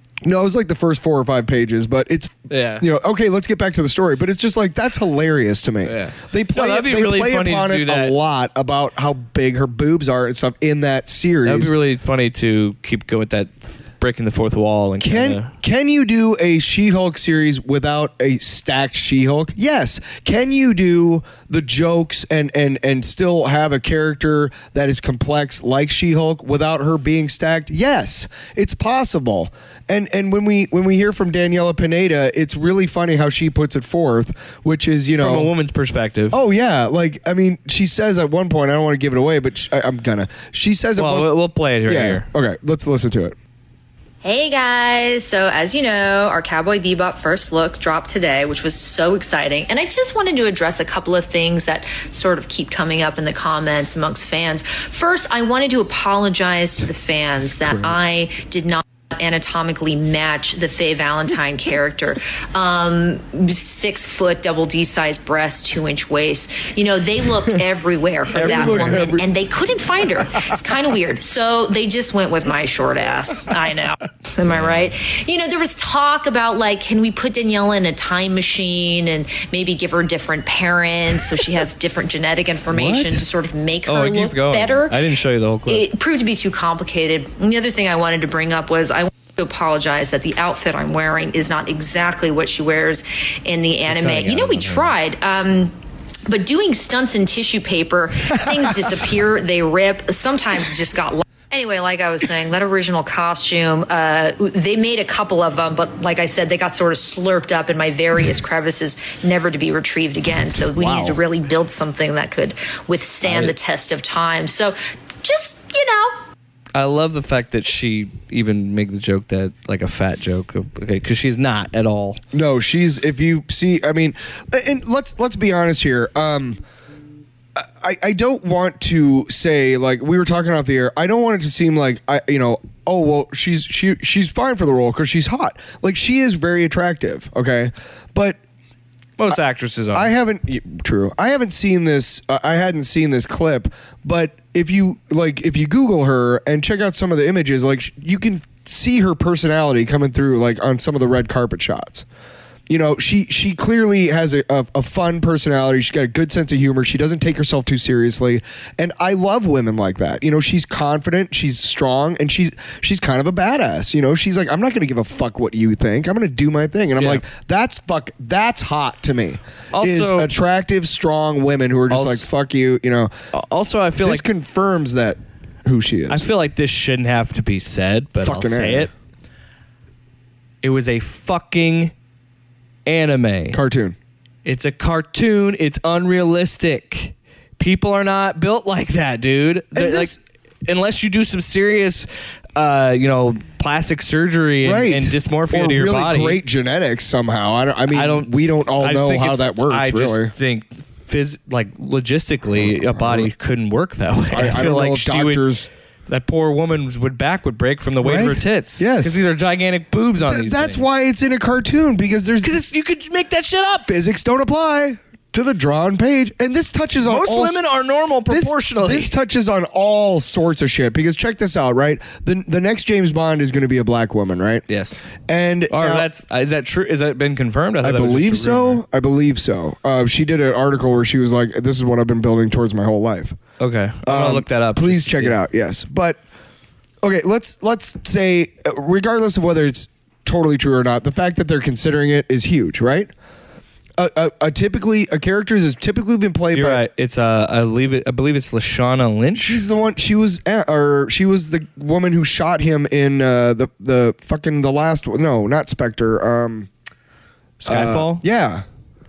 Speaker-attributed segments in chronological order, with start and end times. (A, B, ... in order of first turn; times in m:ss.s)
0:00.2-0:11.7 A
0:02.5-0:02.8 B
0:05.8-0:08.2 B
0:11.4-0:15.5 B
0:15.0-0:35.5 A
0:35.2-0:36.4 B
0:36.3-0:41.3 A
0:41.0-0:42.3 B
0:41.9-0:43.4 A
0:44.2-1:25.0 C
1:08.3-1:09.2 B
1:08.4-1:09.2 A
1:14.4-1:14.9 B
1:22.7-1:23.2 B
1:23.9-1:25.9 B
1:25.7-1:35.7 C
1:33.9-1:34.9 B
1:36.3-1:56.2 C
1:50.8-1:51.2 A
1:53.2-1:53.6 B
1:56.8-2:02.2 B
2:02.3-2:06.6 A
2:07.6-2:18.4 A
2:19.2-2:20.1 B
2:19.9-2:32.1 A
2:32.7-2:53.1 A
2:47.0-2:47.2 B
2:49.7-2:50.3 B
2:51.9-2:52.3 B
2:53.3-2:54.3 B
2:54.0-2:56.3 A
2:56.1-2:58.9 B
2:58.2-2:58.9 A
3:00.6-3:01.9 B
3:02.9-3:03.6 B
3:03.5-3:04.0 A
3:04.4-3:16.4 B
3:09.8-3:10.2 A
3:14.6-3:20.3 A
3:17.9-3:25.5 B
3:22.6-3:23.3 A
3:24.2-3:25.7 A
3:26.1-3:30.8 B
3:28.0-3:29.2 A
3:30.2-3:32.6 A
3:32.4-3:33.9 B
3:33.9-3:37.6 A
3:37.0-3:39.1 B
3:38.3-3:44.6 A
3:44.7-3:45.1 B
3:45.3-3:46.1 A
3:45.7-3:48.8 B
3:47.8-3:53.4 A
3:53.6-3:55.4 B
3:54.0-3:56.2 A
3:57.0-4:03.1 A
4:04.0-4:06.8 A
4:06.5-4:09.6 B
4:09.4-4:16.7 A
4:17.6-4:18.2 B
4:17.7-4:18.6 A